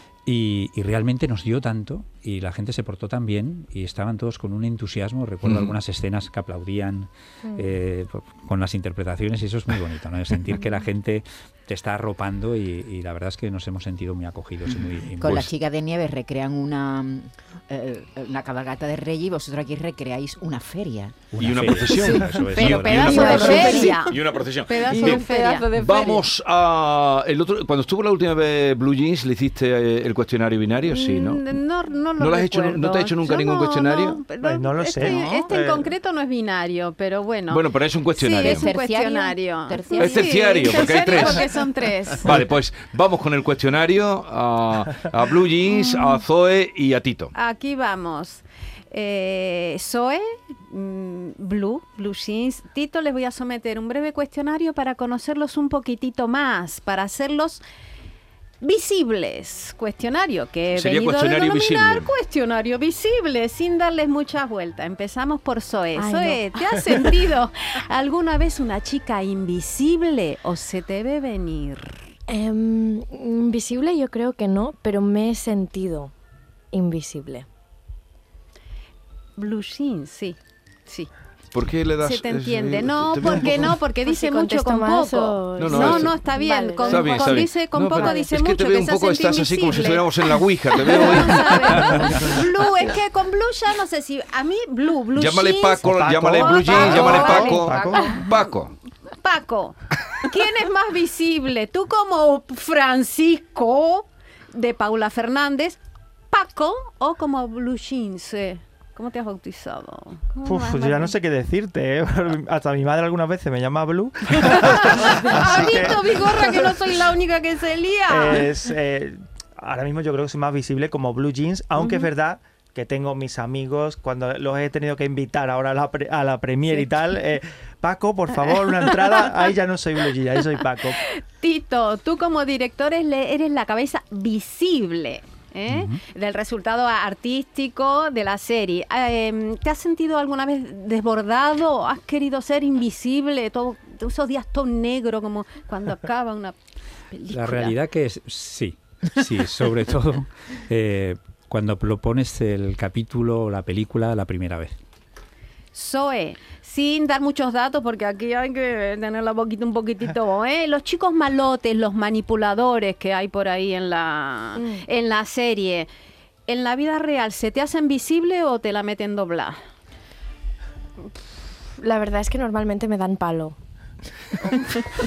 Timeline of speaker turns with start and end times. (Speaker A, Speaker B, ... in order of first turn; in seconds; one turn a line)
Speaker A: 0.2-15.5
Speaker B: 5.4-5.7
Speaker C: 14.7-24.1
Speaker B: 15.2-15.5
Speaker A: 21.3-23.6
Speaker B: 21.4-31.6
Speaker D: 22.5-26.1
Speaker C: 24.8-25.9
Speaker D: 30.9-42.3
Speaker B: 32.2-34.2
Speaker E: 34.4-35.9
Speaker C: 35.0-35.5
Speaker B: 37.5-38.7
Speaker C: 38.4-41.0
Speaker B: 40.0-41.4
Speaker B: 42.2-47.3
Speaker D: 45.7-46.2
Speaker D: 47.3-57.6
Speaker D: 58.6-72.1
Speaker B: 60.7-62.1
Speaker F: 66.0-67.1
Speaker F: 72.3-76.1
Speaker F: 76.7-77.5
Speaker D: 79.4-81.1
Speaker B: 81.5-83.8
Speaker D: 82.0-98.2
Speaker F: 84.0-87.4
Speaker B: 85.6-86.2
Speaker B: 86.8-92.3
Speaker F: 88.0-88.2
Speaker B: 95.2-98.7
Speaker E: 95.8-98.0
Speaker C: 97.4-97.9
Speaker D: 99.2-105.8
Speaker D: 106.3-111.2
Speaker E: 110.4-116.7
Speaker D: 114.3-118.5
Speaker E: 118.1-131.0
Speaker D: 121.8-122.1
Speaker D: 129.0-129.4
Speaker D: 131.0-146.5
Speaker A: 135.7-136.0
Speaker D: 147.1-147.8
Speaker A: 147.3-154.8
Speaker D: 155.7-165.9
Speaker F: 164.6-164.8
Speaker D: 166.5-169.6
Speaker F: 171.8-173.6
Speaker F: 174.5-174.8